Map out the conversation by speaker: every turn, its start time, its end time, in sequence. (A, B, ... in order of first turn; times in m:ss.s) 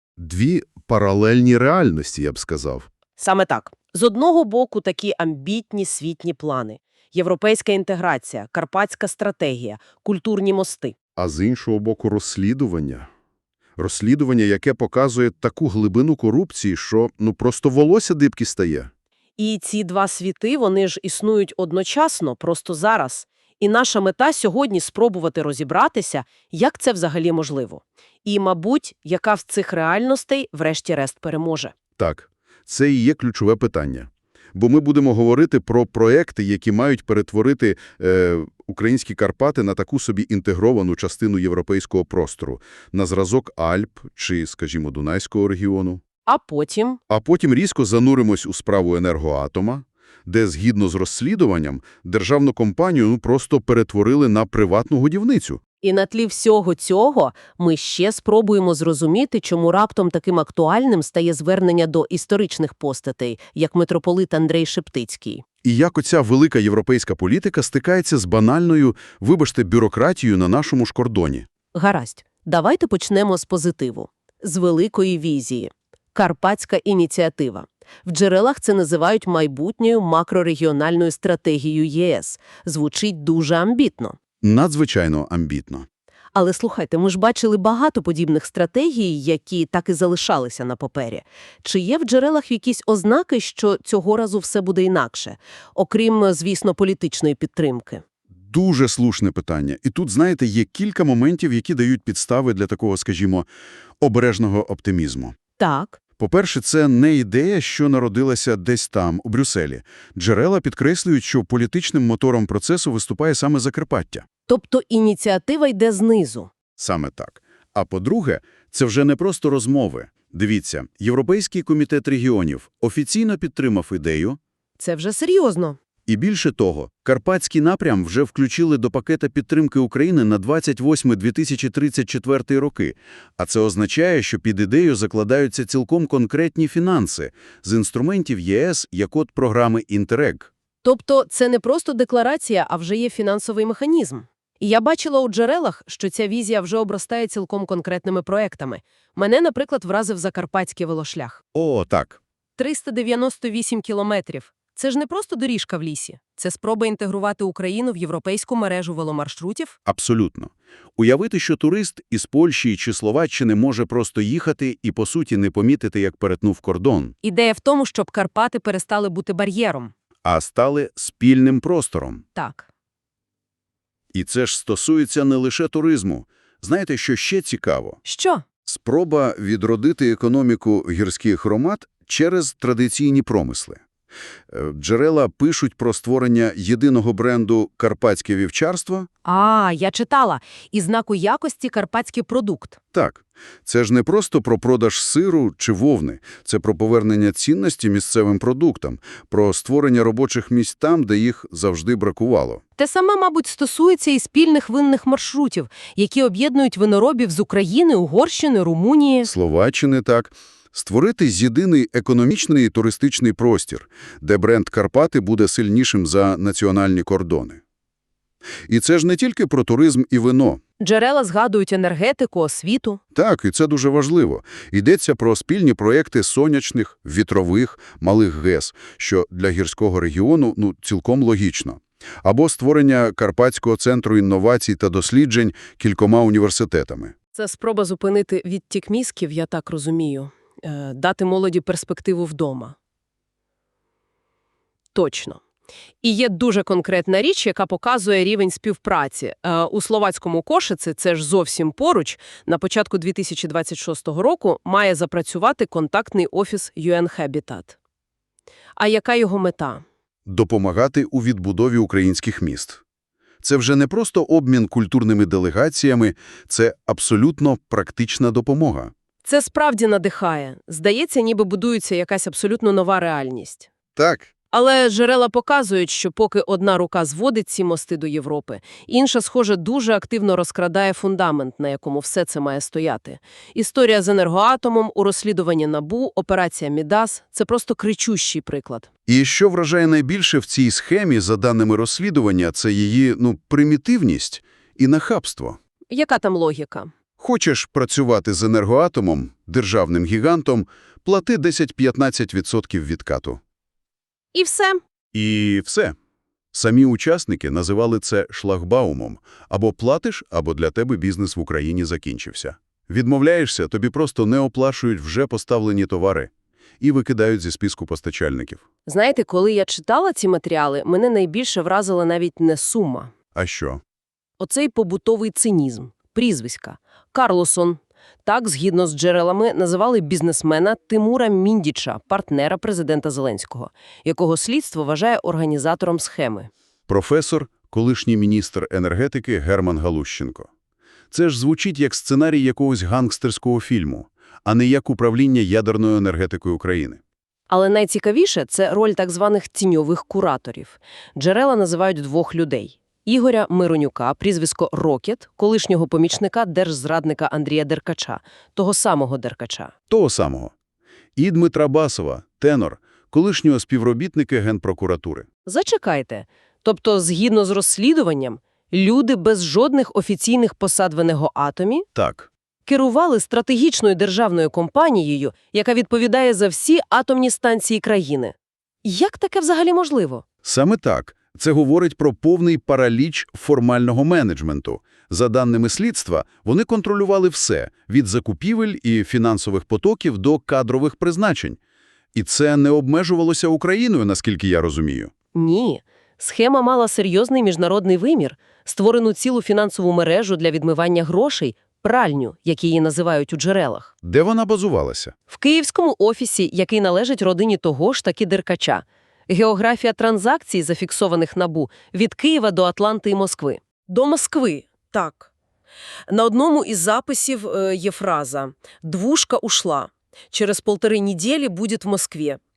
0:00.2-0:02.9 A
0:03.2-0:10.9 B
0:11.2-0:13.1 A
0:13.8-0:18.9 A
0:19.4-0:31.7 B
0:32.0-0:46.0 A
0:46.2-0:47.0 B
0:47.1-0:55.6 A
0:55.8-1:05.4 B
1:05.6-1:11.5 A
1:11.7-1:24.2 B
1:24.4-1:25.8 A
1:26.3-1:38.0 B
1:38.5-1:43.5 A
1:44.0-1:45.4 A
1:45.6-1:46.0 B
1:46.2-1:54.3 A
1:54.5-1:56.5 B
1:56.8-2:04.4 A
2:04.8-2:05.8 B
2:06.1-2:20.5 A
2:20.8-2:31.4 B
2:31.5-2:32.2 A
2:32.6-2:39.8 B
2:39.9-2:47.1 A
2:47.2-2:49.9 B
2:50.2-2:52.2 A
2:52.3-2:52.7 B
2:54.1-2:58.0 A
2:58.0-2:58.4 B
2:58.6-3:03.8 A
3:04.5-3:09.1 A
3:09.2-3:12.8 B
3:12.9-3:22.6 A
3:22.8-3:29.3 B
3:29.2-3:37.6 A
3:38.7-3:40.6 A
3:40.8-3:43.0 B
3:43.1-3:57.1 A
3:57.3-4:02.8 B
4:04.9-4:05.4 B
4:06.0-4:17.8 B
4:18.8-4:19.8 B
4:20.2-4:22.8 A
4:23.4-4:28.9 A
4:29.2-4:33.7 B
4:34.0-4:34.3 A
4:34.5-4:48.9 B
4:49.1-4:55.6 A
4:55.9-4:56.9 B
4:57.2-5:03.4 A
5:04.3-5:04.8 B
5:05.1-5:05.9 A
5:06.5-5:18.6 A
5:18.8-5:23.1 B
5:23.3-5:23.8 A
5:24.4-5:36.5 B
5:36.9-5:40.5 A
5:41.1-5:47.0 A
5:47.5-5:59.7 B
5:59.9-6:00.5 A
6:01.2-6:05.3 A
6:05.4-6:11.8 B
6:11.9-6:12.3 A
6:12.6-6:20.2 B
6:20.4-6:31.6 A
6:32.1-6:35.1 A
6:35.3-6:43.9 B
6:44.0-6:45.1 A
6:45.3-6:55.3 B
6:56.1-7:02.4 B